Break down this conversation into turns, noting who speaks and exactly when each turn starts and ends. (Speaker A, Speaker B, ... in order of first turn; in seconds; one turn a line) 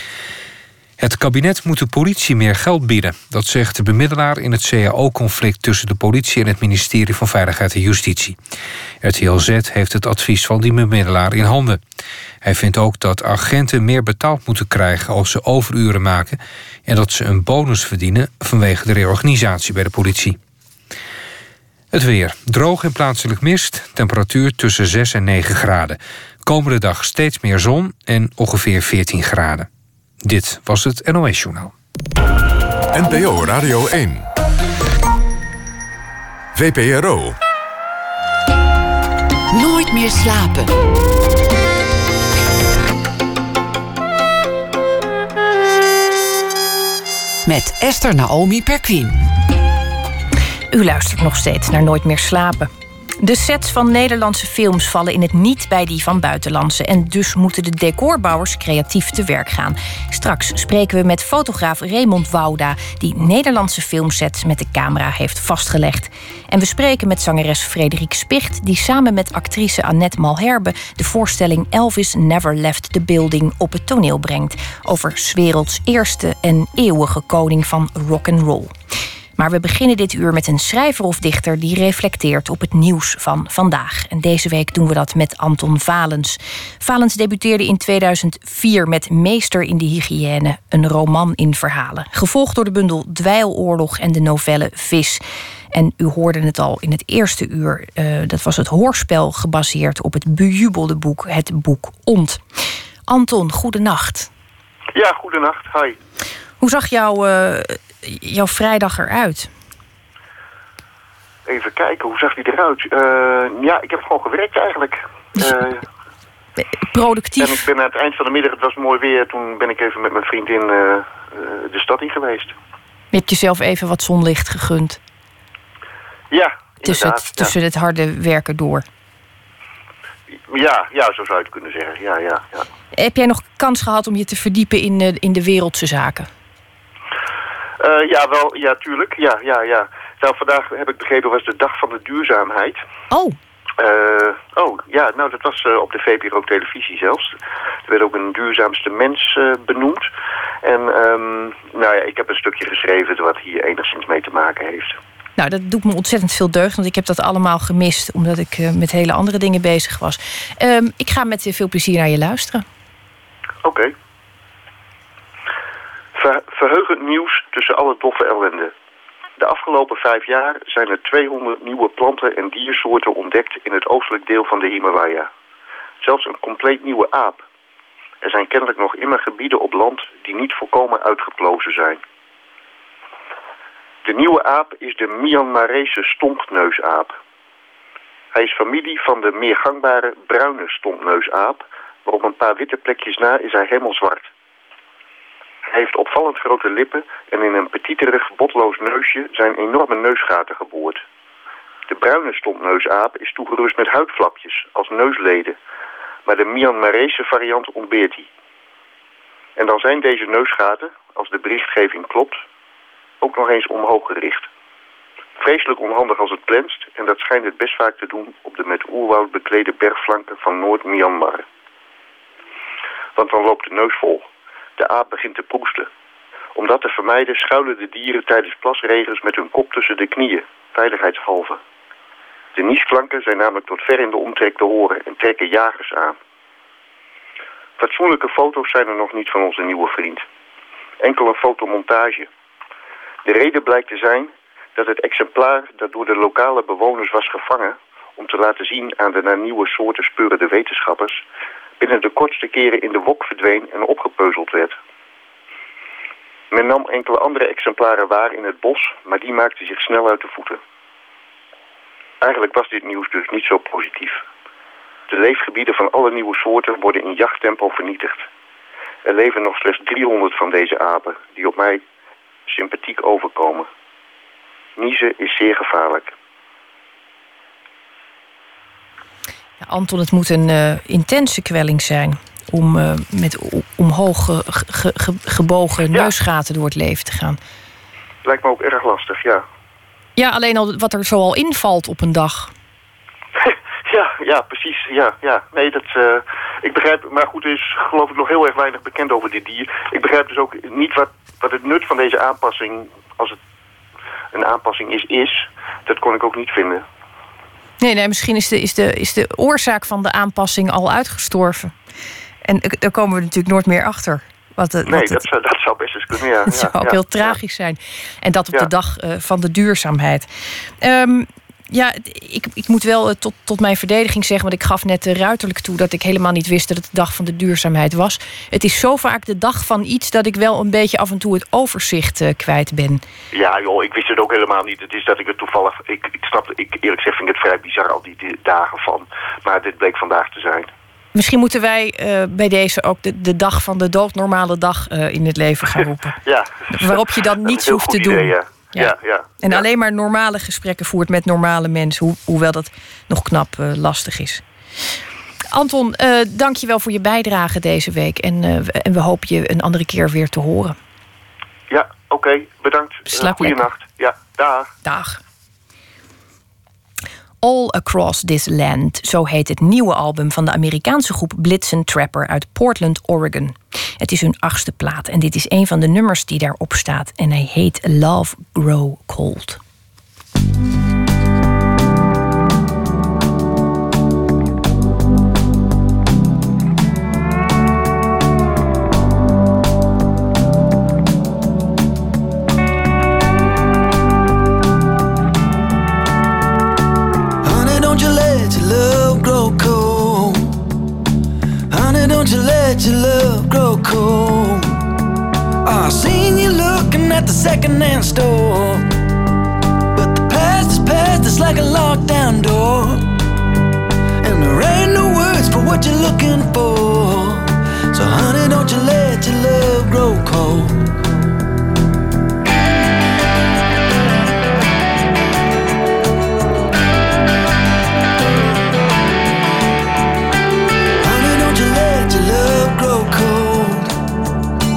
Speaker A: 1.0-8.4
Speaker A: 9.0-11.8
Speaker A: 12.4-20.4
Speaker A: 21.9-29.7
Speaker A: 30.2-31.7
Speaker B: 32.9-34.3
Speaker B: 36.5-37.4
Speaker C: 39.5-40.8
Speaker C: 47.5-49.2
Speaker D: 50.7-78.7
Speaker D: 79.4-102.4
Speaker D: 103.1-104.3
Speaker E: 104.9-106.0
Speaker D: 106.6-109.5
Speaker E: 111.5-115.8
Speaker D: 116.9-117.7
Speaker E: 117.4-122.5
Speaker D: 123.1-125.0
Speaker E: 126.3-127.5
Speaker D: 126.8-128.8
Speaker E: 130.3-132.7
Speaker D: 132.9-136.3
Speaker E: 137.8-142.8
Speaker D: 143.1-143.3
Speaker E: 143.8-147.3
Speaker E: 147.8-150.1
Speaker E: 150.6-155.0
Speaker D: 155.4-162.6
Speaker E: 163.6-163.9
Speaker E: 166.1-168.7
Speaker E: 169.4-175.3
Speaker E: 176.0-177.4
Speaker E: 178.2-182.0
Speaker E: 184.0-187.2
Speaker E: 188.3-194.3
Speaker E: 195.7-201.0
Speaker E: 201.9-205.6
Speaker E: 206.2-208.3
Speaker E: 209.6-212.4
Speaker E: 213.2-214.5
Speaker E: 215.4-221.4
Speaker E: 223.1-224.2
Speaker E: 224.8-225.9
Speaker E: 226.5-231.6
Speaker E: 232.5-236.2
Speaker E: 237.8-240.2
Speaker E: 241.0-242.3
Speaker E: 243.2-251.2
Speaker E: 251.8-254.8
Speaker E: 256.5-260.6
Speaker E: 262.2-264.2
Speaker E: 265.1-268.3
Speaker E: 269.0-271.8
Speaker E: 272.5-273.7
Speaker E: 274.8-276.1
Speaker D: 279.6-287.4
Speaker E: 288.2-289.4
Speaker D: 290.2-292.5
Speaker E: 293.4-303.4
Speaker E: 304.3-306.9
Speaker D: 307.8-311.7
Speaker D: 312.4-315.2
Speaker E: 314.9-317.3
Speaker D: 316.5-320.3
Speaker D: 320.8-333.0
Speaker E: 333.3-340.7
Speaker D: 341.1-346.2
Speaker E: 346.2-349.6
Speaker D: 346.7-354.4
Speaker D: 355.5-360.8
Speaker E: 361.7-364.7
Speaker D: 363.1-363.6
Speaker D: 364.8-365.2
Speaker D: 367.4-379.6
Speaker F: 397.4-400.6
Speaker F: 401.7-404.8
Speaker F: 405.6-408.9
Speaker F: 409.9-413.1
Speaker F: 414.2-421.0
Speaker F: 431.0-433.9